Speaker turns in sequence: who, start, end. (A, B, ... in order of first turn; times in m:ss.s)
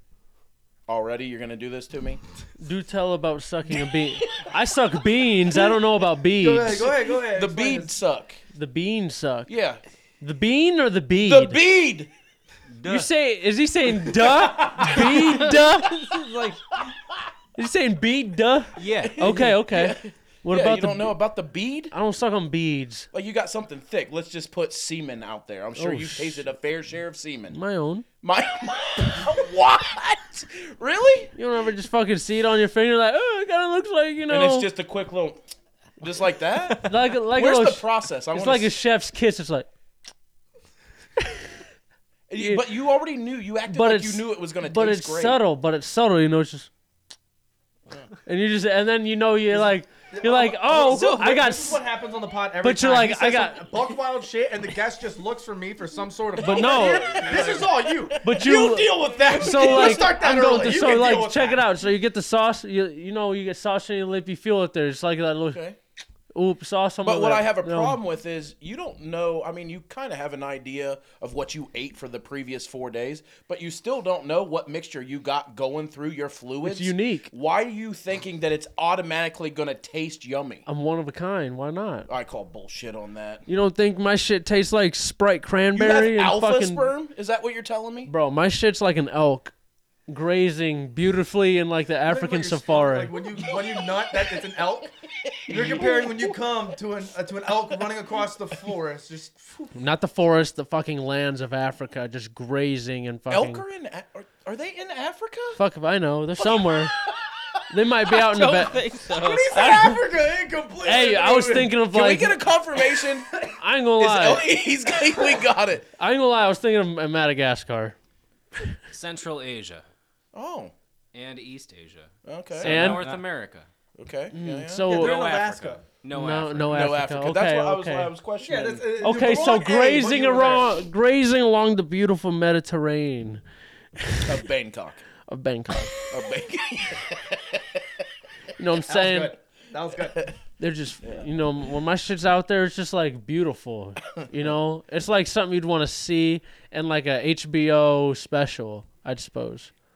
0:00.9-0:02.2 A
0:02.6-0:06.9 B
0:04.2-0:04.5 A
0:06.4-0:07.9 C
0:07.1-0:08.4 A
0:08.5-0:09.5 B
0:09.5-0:09.8 A
0:10.2-0:11.6 B
0:11.2-0:12.1 A
0:12.7-0:13.1 D
0:12.9-0:16.2 B
0:14.0-0:16.1 A
0:16.1-0:16.6 E
0:16.9-0:17.2 A
0:17.6-0:21.2 B
0:18.8-0:19.5 D
0:19.0-0:21.9 A
0:21.9-0:23.1 B
0:23.1-0:27.6 A
0:25.8-0:26.5 B
0:27.5-0:28.1 B
0:28.2-0:31.3 A
0:31.4-0:34.7 B
0:34.3-0:35.4 A
0:36.0-0:38.7 A
0:36.8-0:39.7 B
0:42.3-0:45.4 A
0:42.4-0:42.6 B
0:43.7-0:46.7 B
0:48.3-0:51.8 B
0:49.5-1:01.7 C
0:50.8-0:51.4 E
0:52.6-0:53.8 B
0:56.4-0:57.6 B
0:56.4-0:58.5 A
0:58.2-1:05.6 B
0:59.4-1:00.9 A
1:05.5-1:05.8 A
1:06.3-1:08.0 B
1:07.0-1:20.7 A
1:16.6-1:17.3 B
1:20.7-1:22.1 B
1:22.1-1:23.4 A
1:23.5-1:26.9 B
1:25.7-1:28.1 A
1:28.1-1:29.5 B
1:30.1-1:33.2 B
1:32.0-1:34.9 C
1:33.5-1:34.5 A
1:35.2-1:36.4 A
1:35.5-1:39.7 C
1:39.8-1:43.6 B
1:43.3-1:45.6 A
1:45.6-1:47.0 B
1:46.4-1:47.1 A
1:47.7-1:48.8 B
1:48.1-1:49.7 E
1:49.2-1:51.8 C
1:49.5-1:50.0 B
1:50.8-1:52.4 B
1:51.9-1:53.4 A
1:53.5-1:54.5 B
1:54.0-1:55.9 A
1:55.9-1:58.0 B
1:58.9-1:59.8 D
2:00.3-2:00.7 A
2:01.1-2:03.7 D
2:02.2-2:03.0 A
2:02.6-2:03.2 B
2:02.8-2:03.2 E
2:04.0-2:05.2 A
2:04.3-2:05.3 B
2:04.8-2:05.8 C
2:05.1-2:06.9 D
2:06.1-2:08.1 B
2:06.6-2:08.8 A
2:08.4-2:10.8 C
2:08.9-2:13.4 B
2:14.0-2:14.4 B
2:14.2-2:15.1 A
2:15.3-2:16.2 B
2:16.0-2:17.8 A
2:18.6-2:19.4 B
2:18.9-2:20.2 C
2:20.6-2:29.7 B